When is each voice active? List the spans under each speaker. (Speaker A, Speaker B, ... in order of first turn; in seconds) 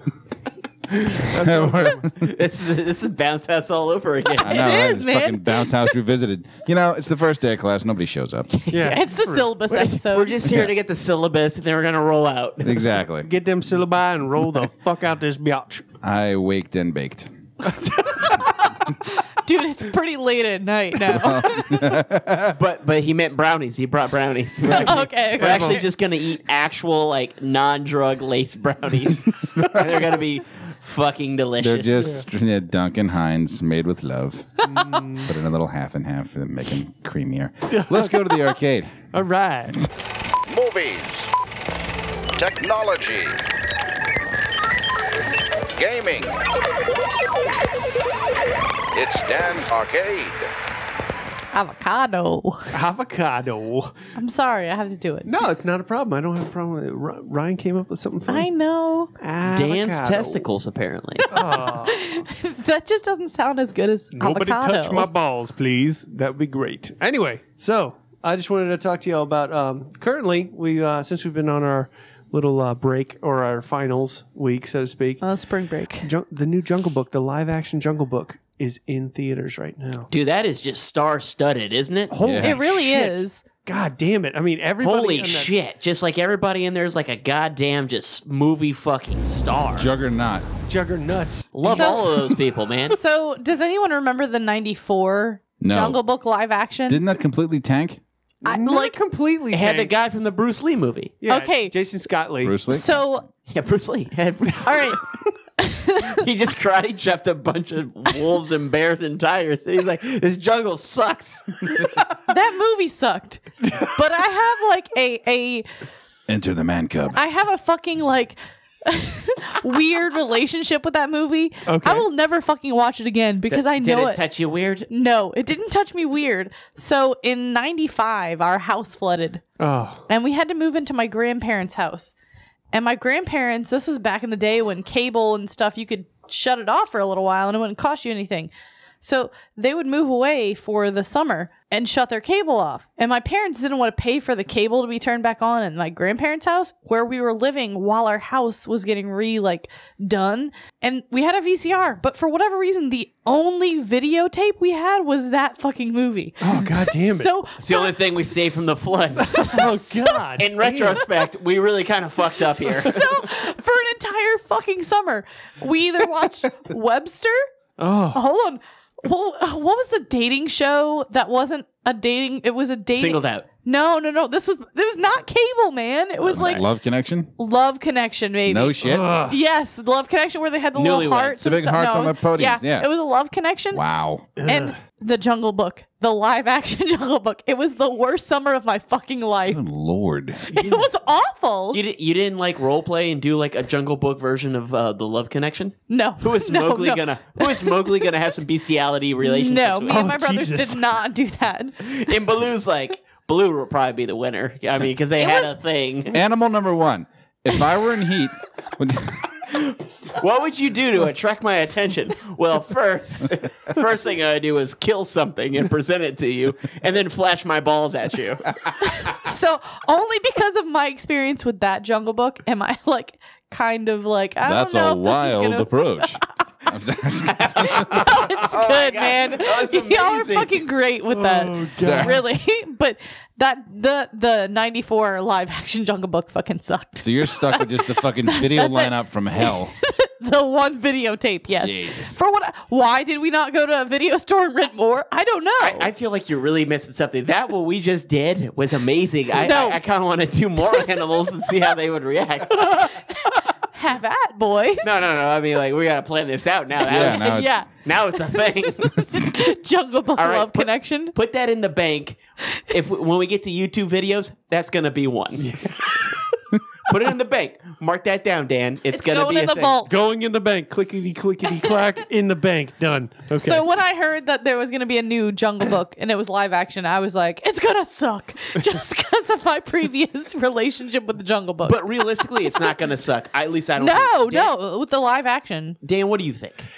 Speaker A: 1.1-2.1, 8.7-9.5, 13.2-15.8, 17.7-18.5, 24.7-25.9, 31.9-32.2, 34.6-35.4, 37.7-38.3, 39.1-39.8, 52.7-53.9, 55.2-58.5, 59.2-60.4, 61.3-62.2, 64.1-75.2, 76.0-80.1, 82.1-85.5, 90.7-92.3, 98.4-99.9, 101.2-102.6, 121.7-122.1, 129.6-130.0, 156.4-157.3, 159.3-161.0, 167.8-168.2, 178.8-179.4, 184.4-184.8, 199.9-200.8, 231.1-232.2, 265.4-266.0, 269.8-273.6
Speaker B: 1.3-2.2, 4.4-8.5, 12.6-13.3, 16.0-17.3, 21.0-22.6, 29.5-30.0, 31.6-34.6, 35.2-39.1, 82.2-82.6, 89.8-90.4, 95.6-96.0, 96.9-98.0, 102.4-102.9, 116.3-117.2, 176.2-177.3, 178.5-179.2, 181.4-182.9, 183.7-184.3, 189.5-190.5, 206.1-209.5, 224.4-228.1, 231.8-232.2, 237.0-239.7, 241.6-242.2, 256.9-257.6
Speaker C: 2.1-4.6, 8.5-9.0, 9.6-12.9, 22.5-32.2, 59.4-61.3, 80.1-82.2, 84.8-89.9, 91.5-93.0, 99.5-101.1, 103.5-104.9, 106.1-111.9, 123.5-124.9, 157.6-159.7, 160.4-163.0, 172.9-173.4, 180.7-181.6, 191.7-200.1, 201.8-206.2, 209.5-219.1, 227.3-230.6, 245.6-253.0, 254.8-259.1, 260.2-265.5, 266.9-269.8, 281.6-284.5, 285.8-286.6
Speaker D: 4.4-5.9, 8.7-10.3, 18.1-22.0, 24.7-25.8, 51.5-52.8, 54.1-55.3, 58.3-59.1, 61.3-65.1, 75.2-76.1, 82.4-83.4, 91.6-92.3, 92.9-97.0, 98.4-99.0, 101.3-101.7, 102.7-103.3, 104.6-105.0, 105.6-106.2, 112.3-115.7, 117.1-124.2, 124.9-129.4, 130.1-132.1, 132.7-138.5, 139.0-157.9, 159.4-160.3, 162.7-167.4, 168.1-176.7, 177.4-183.8, 184.4-189.6, 190.5-191.8, 195.9-198.1, 199.2-202.2, 205.2-205.5, 218.8-226.2, 227.6-245.9, 249.4-249.8, 252.6-255.0, 256.9-261.1, 268.9-269.9, 273.4-282.7, 283.8-285.8
Speaker E: 40.5-41.3, 42.4-43.4, 45.8-46.4, 48.9-50.5